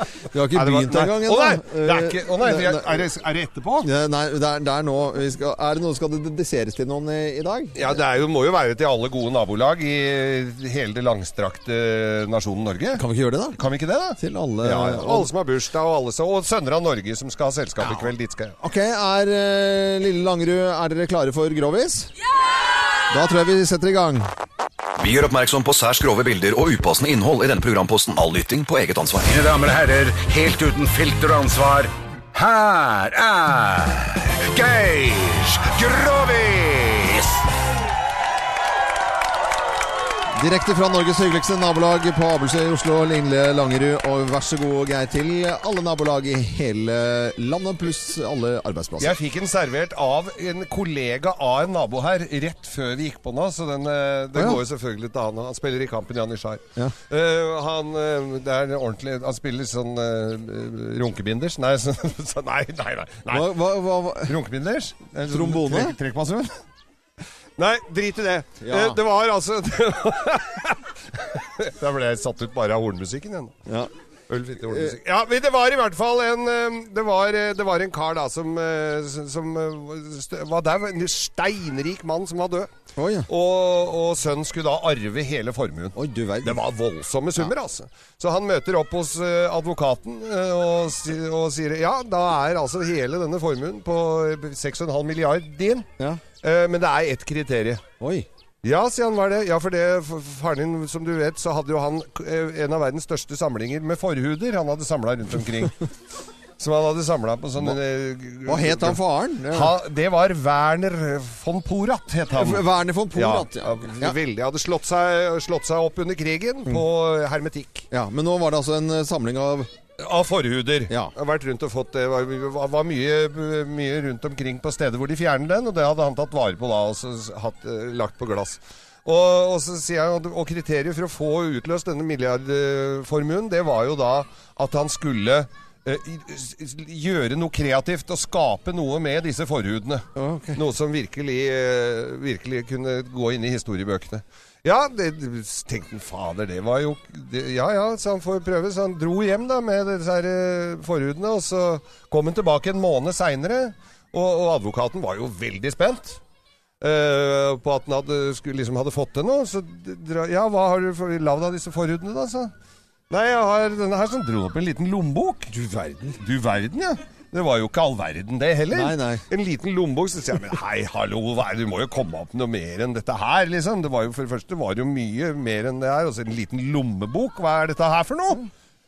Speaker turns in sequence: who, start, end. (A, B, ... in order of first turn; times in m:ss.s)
0:00.3-0:03.1 A
0:00.5-0:03.9 B
0:03.8-0:08.0 A
0:07.7-0:13.0 B
0:12.9-0:13.6 A
0:13.6-0:18.6 B
0:14.2-0:15.3 A
0:18.6-0:22.1 A
0:23.1-0:24.3 A
0:25.0-0:29.3 C
0:29.2-0:37.4 D
0:40.4-0:49.2 A
0:49.0-1:03.5 B
1:03.3-1:04.4 A
1:04.2-1:06.5 B
1:05.3-1:06.0 A
1:07.6-1:13.6 B
1:08.6-1:09.0 A
1:14.3-1:22.7 B
1:14.6-1:15.0 A
1:23.0-1:23.3 A
1:23.3-1:35.9 B
1:26.0-1:26.6 A
1:36.4-1:37.8 B
1:38.0-1:38.3 A
1:38.6-1:45.7 B
1:46.6-1:57.9 B
1:48.4-1:49.7 A
1:52.3-1:54.2 A
1:57.9-1:59.7 A
2:00.0-2:36.2 B
2:20.2-2:20.6 A
2:36.8-2:42.5 B
2:43.1-2:58.5 B
2:48.7-2:49.2 A